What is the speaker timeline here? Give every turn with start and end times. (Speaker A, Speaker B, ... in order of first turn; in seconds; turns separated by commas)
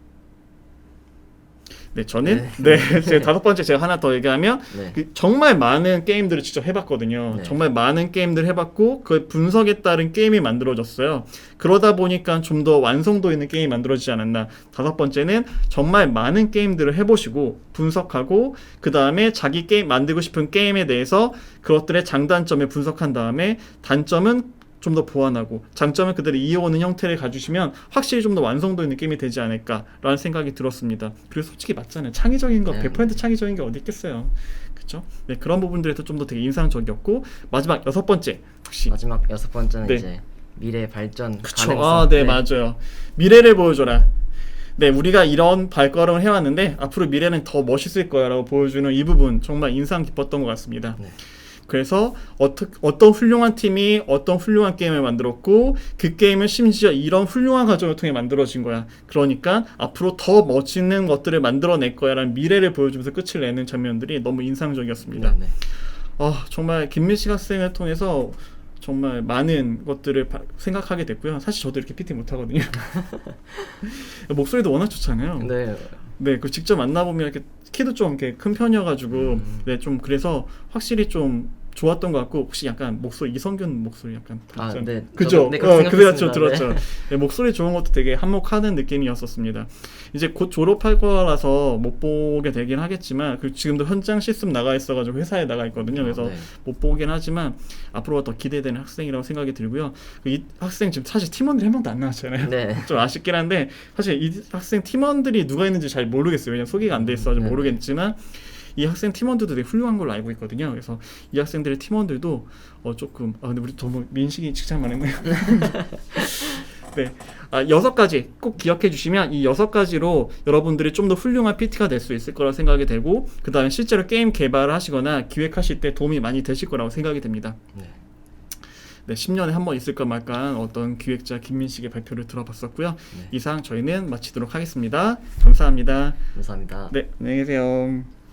Speaker A: 1.9-38.9, Speaker B: 2.2-3.3, Speaker B: 4.7-5.0, Speaker B: 7.3-7.6, Speaker B: 32.6-33.2, Speaker B: 38.9-42.5, Speaker A: 41.4-44.1, Speaker A: 44.8-51.0, Speaker A: 51.7-65.4, Speaker B: 65.0-65.5, Speaker A: 66.2-73.2, Speaker A: 73.8-116.4, Speaker B: 75.4-76.1, Speaker B: 79.1-79.7, Speaker B: 84.5-87.0, Speaker B: 95.8-96.5, Speaker B: 102.4-103.0, Speaker B: 106.9-107.8, Speaker A: 116.9-127.6, Speaker B: 127.7-128.0, Speaker A: 129.1-136.2, Speaker B: 136.3-136.9, Speaker A: 136.9-138.1